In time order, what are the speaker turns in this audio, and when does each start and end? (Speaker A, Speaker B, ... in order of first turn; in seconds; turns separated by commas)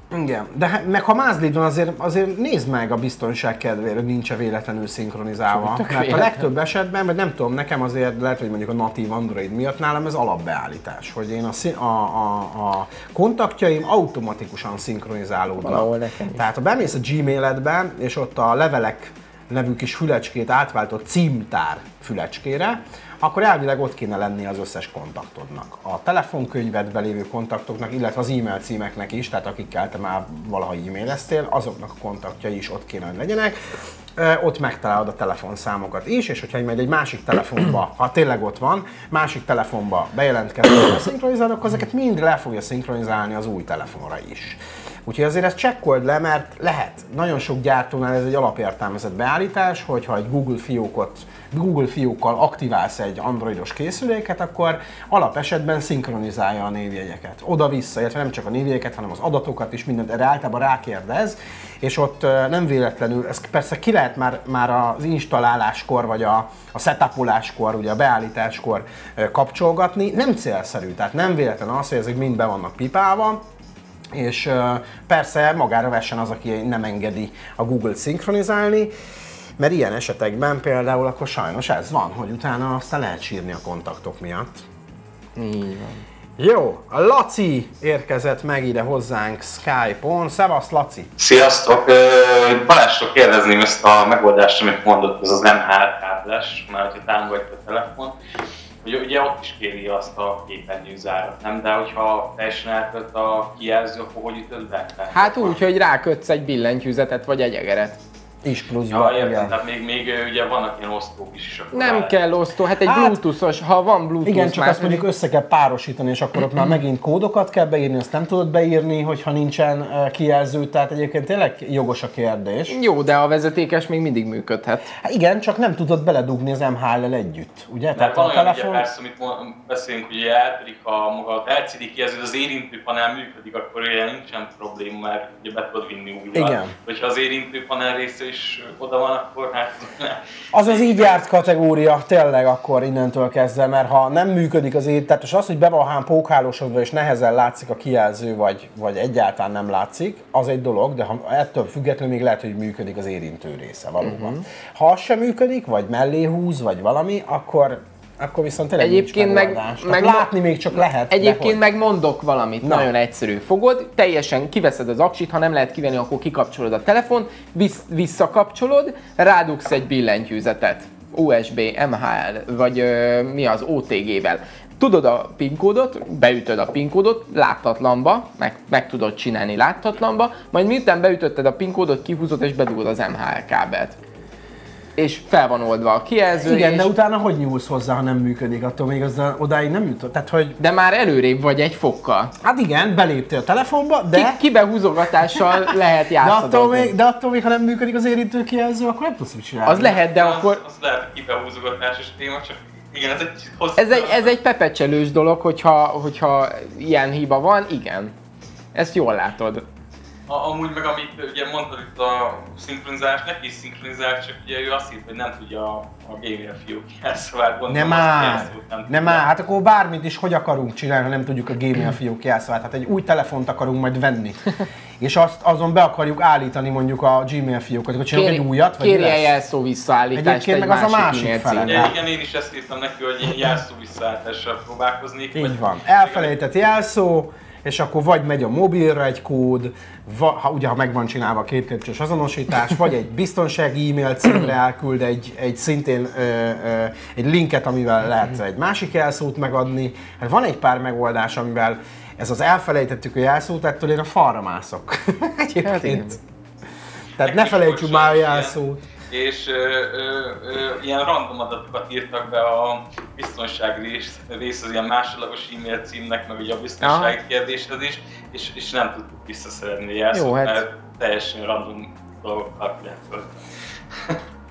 Speaker A: 0.1-73.4, Speaker B: 5.5-6.4, Speaker B: 15.6-16.5, Speaker A: 74.1-78.9, Speaker A: 79.6-84.7, Speaker B: 85.4-86.0, Speaker A: 86.4-91.1, Speaker C: 91.2-98.1, Speaker C: 98.8-105.6, Speaker B: 105.1-108.0, Speaker A: 108.4-109.6, Speaker C: 108.9-112.1, Speaker B: 111.7-115.1, Speaker A: 112.8-113.2, Speaker A: 114.2-122.8, Speaker B: 122.7-124.9, Speaker A: 125.0-128.9, Speaker C: 128.0-141.4, Speaker A: 136.3-136.7, Speaker A: 140.5-161.6, Speaker B: 154.0-154.4, Speaker B: 158.8-160.3, Speaker B: 161.1-184.0, Speaker A: 162.6-162.9, Speaker B: 185.0-186.9, Speaker A: 186.4-190.6, Speaker B: 190.6-192.3, Speaker A: 192.4-194.4, Speaker B: 194.1-196.9, Speaker A: 195.3-200.0, Speaker B: 199.7-200.6, Speaker C: 199.9-204.3, Speaker B: 203.8-208.1, Speaker B: 208.8-209.7, Speaker C: 210.3-219.2, Speaker A: 217.7-224.4, Speaker A: 225.0-229.3, Speaker B: 228.1-231.9, Speaker A: 230.1-231.9, Speaker C: 231.7-236.3, Speaker A: 235.3-256.2, Speaker B: 255.6-256.2, Speaker A: 257.2-258.8, Speaker C: 257.2-258.6, Speaker C: 259.1-273.3, Speaker B: 266.8-267.1, Speaker B: 270.1-270.6